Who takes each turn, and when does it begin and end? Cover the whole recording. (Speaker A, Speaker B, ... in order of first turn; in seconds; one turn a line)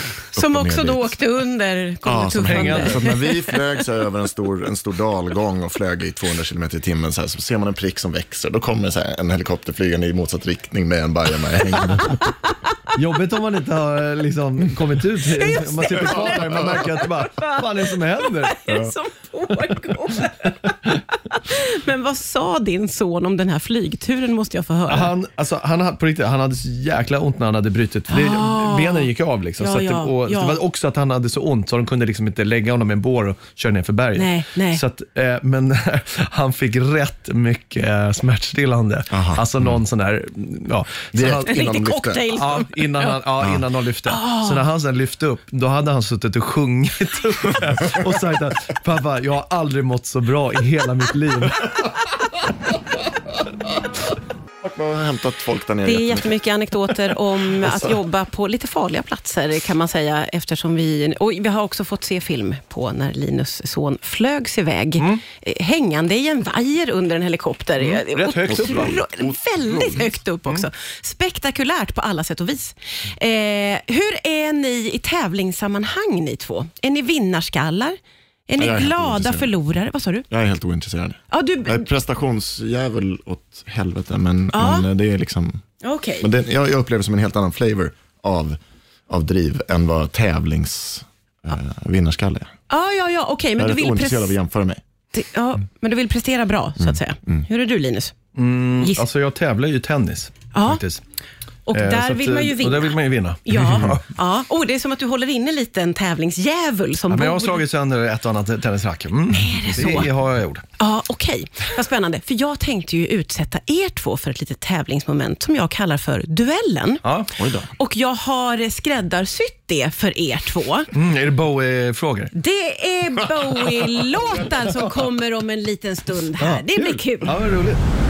Speaker A: 0.3-1.2
Speaker B: 0.3-3.6
Speaker A: 2.0-12.2
Speaker C: 2.4-3.2
Speaker B: 12.1-12.7
Speaker C: 12.9-18.6
Speaker B: 15.3-25.1
Speaker A: 16.0-16.8
Speaker C: 24.9-41.8
Speaker B: 28.1-30.6
Speaker B: 34.2-34.8
Speaker A: 39.1-39.8
Speaker A: 41.1-42.3
Speaker B: 41.5-43.2
Speaker C: 42.3-51.8
Speaker B: 44.1-44.6
Speaker A: 54.6-56.3
Speaker B: 55.9-78.0
Speaker A: 57.6-57.9
Speaker C: 67.8-69.0
Speaker A: 68.5-70.2
Speaker B: 78.5-80.3
Speaker A: 78.6-79.5
Speaker A: 80.3-85.6
Speaker B: 81.3-81.9
Speaker B: 84.5-84.9
Speaker B: 85.8-86.3
Speaker A: 86.2-88.6
Speaker A: 89.1-92.5
Speaker B: 92.7-94.4
Speaker A: 93.6-94.8
Speaker B: 95.1-98.2
Speaker A: 96.8-97.5
Speaker C: 98.3-101.0
Speaker B: 100.5-100.8
Speaker B: 101.7-107.6
Speaker C: 101.7-104.0
Speaker A: 103.7-104.0
Speaker C: 107.1-110.6
Speaker B: 109.3-110.1
Speaker B: 110.8-117.0
Speaker C: 117.0-117.3
Speaker A: 117.4-117.7
Speaker B: 117.8-120.9
Speaker C: 120.9-122.3
Speaker B: 122.3-127.3
Speaker C: 126.4-127.8